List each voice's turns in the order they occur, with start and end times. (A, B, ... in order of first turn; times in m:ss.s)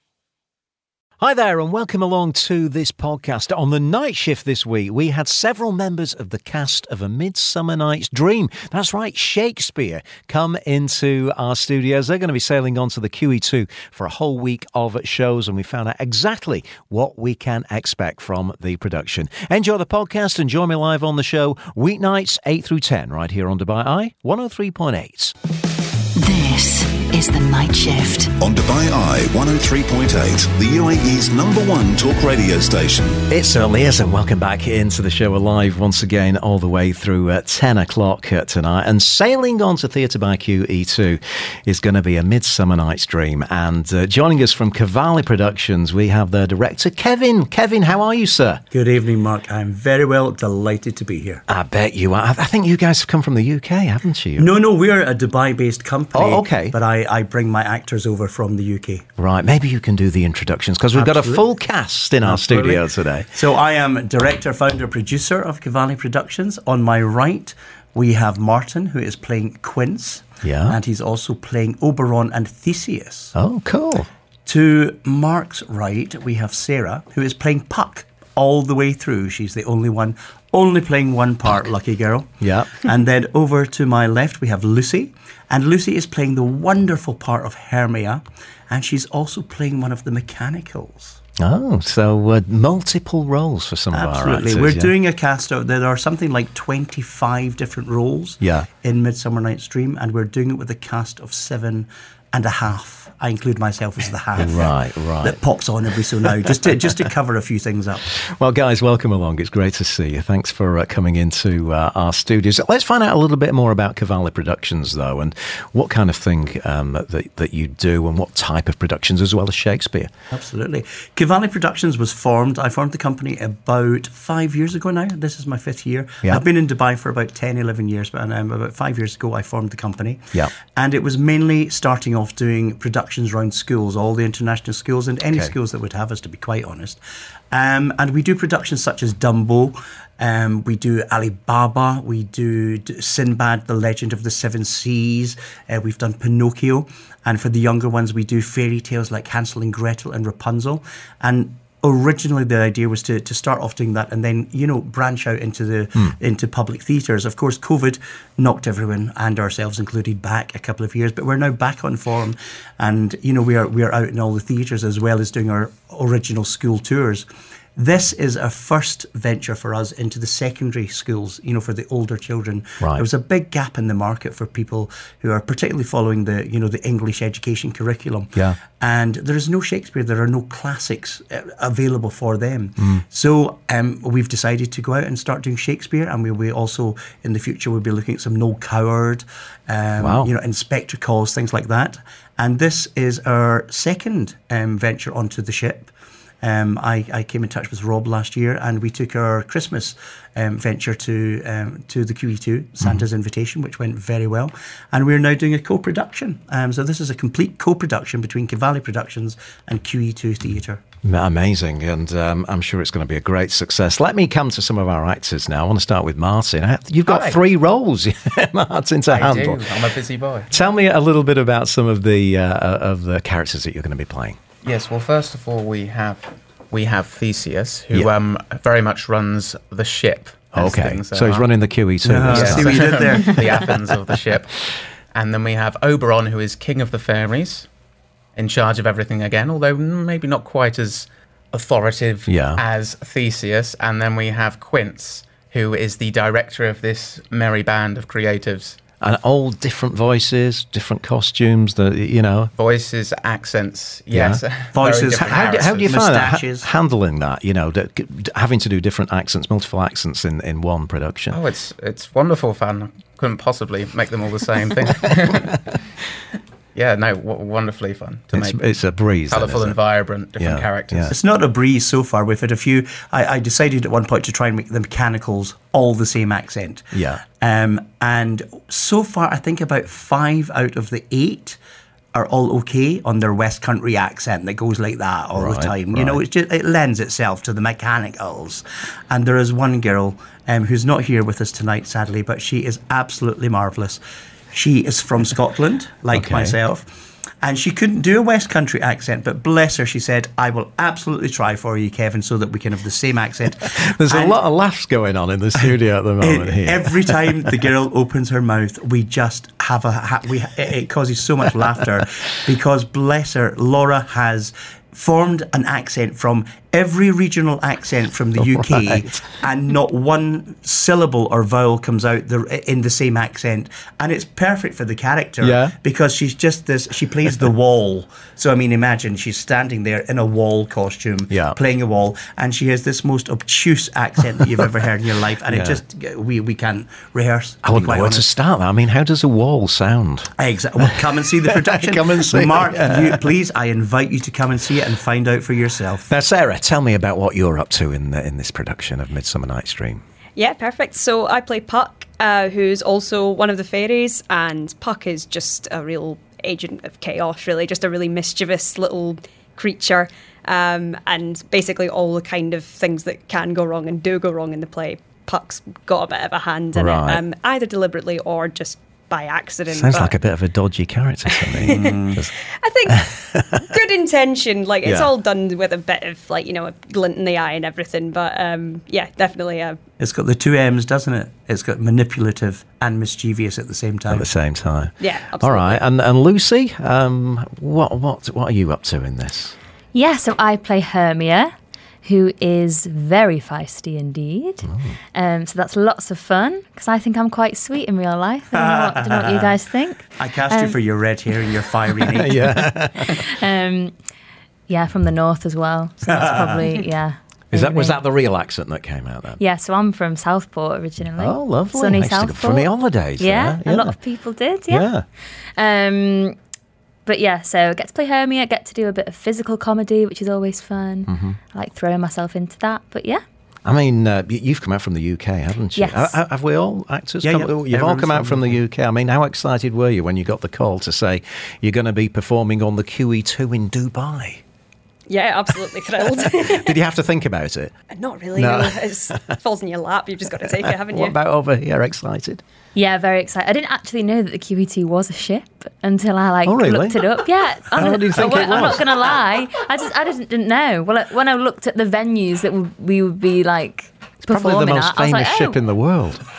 0:01.2-0:25.3 A
0:26.2-0:28.3 B
0:28.4-0:33.2 C
0:33.3-0:48.6 A
0:48.7-0:51.4 D
0:51.5-0:54.5 A
0:54.4-0:59.0 D
0:56.1-0:56.8 A
0:59.2-1:03.3 A
1:00.9-1:01.5 D
1:02.2-1:13.3 D
1:10.4-1:10.8 A
1:13.3-1:14.1 A
1:14.4-1:31.2 D
1:22.4-1:22.8 A
1:31.4-1:34.9 A
1:33.9-1:48.1 D
1:38.4-1:38.7 A
1:44.4-1:45.4 A
1:48.1-2:00.1 A
2:00.3-2:17.0 D
2:17.5-3:30.8 D
3:10.0-3:10.3 A
3:31.0-3:39.8 A
3:37.1-3:37.4 E
3:39.1-3:40.5 E
3:40.5-3:44.4 A
3:44.6-3:51.5 E
3:50.5-3:52.8 A
3:52.0-3:53.6 D
3:52.3-3:54.6 E
3:55.1-3:57.7 E
3:58.3-4:08.8 E
4:02.3-4:02.6 A
4:09.0-4:12.5 A
4:12.5-4:16.1 E
4:14.1-4:14.4 A
4:14.7-4:16.7 D
4:15.2-4:21.4 A
4:21.3-4:25.5 E
4:26.7-4:28.6 E
4:28.3-4:29.8 A
4:29.3-4:31.2 E
4:30.4-4:31.1 A
4:31.1-4:41.6 D
4:36.9-4:37.2 A
4:42.1-4:54.0 D
4:45.3-4:46.2 A
4:54.5-4:56.9 D
4:56.1-4:56.6 A
4:57.4-5:04.4 D
5:03.7-5:07.4 A
5:06.2-5:38.2 D
5:18.4-5:19.2 A
5:25.4-5:25.7 A
5:31.3-5:31.6 A
5:35.5-5:35.8 A
5:37.6-5:40.3 A
5:40.4-5:46.1 D
5:41.5-5:43.2 A
5:46.1-5:50.0 A
5:50.4-6:10.2 F
6:06.7-6:07.2 A
6:09.7-6:12.3 A
6:11.3-6:12.0 F
6:11.6-6:12.2 D
6:12.6-6:19.8 F
6:13.0-6:13.6 A
6:14.8-6:15.1 A
6:20.0-6:24.3 D
6:24.1-6:29.6 A
6:25.0-6:25.8 F
6:29.9-6:31.5 G
6:32.0-6:40.8 G
6:34.6-6:34.9 A
6:38.5-6:39.5 D
6:40.2-6:42.4 D
6:42.1-6:43.2 A
6:43.0-6:43.9 G
6:44.7-6:48.0 G
6:46.1-6:46.6 D
6:47.5-6:49.4 A
6:49.4-6:54.9 G
6:51.2-6:54.0 A
6:54.7-6:55.0 A
6:55.6-6:56.4 G
6:57.0-7:03.2 G
7:01.1-7:01.4 A
7:03.6-7:14.4 A
7:05.7-7:06.1 G
7:07.2-7:08.6 D
7:15.1-7:16.8 F
7:16.1-7:17.7 A
7:17.9-7:21.1 F
7:18.3-7:19.2 A
7:20.5-7:22.4 A
7:22.7-7:35.6 G
7:26.4-7:27.0 A
7:27.7-7:28.8 A
7:34.3-7:36.2 A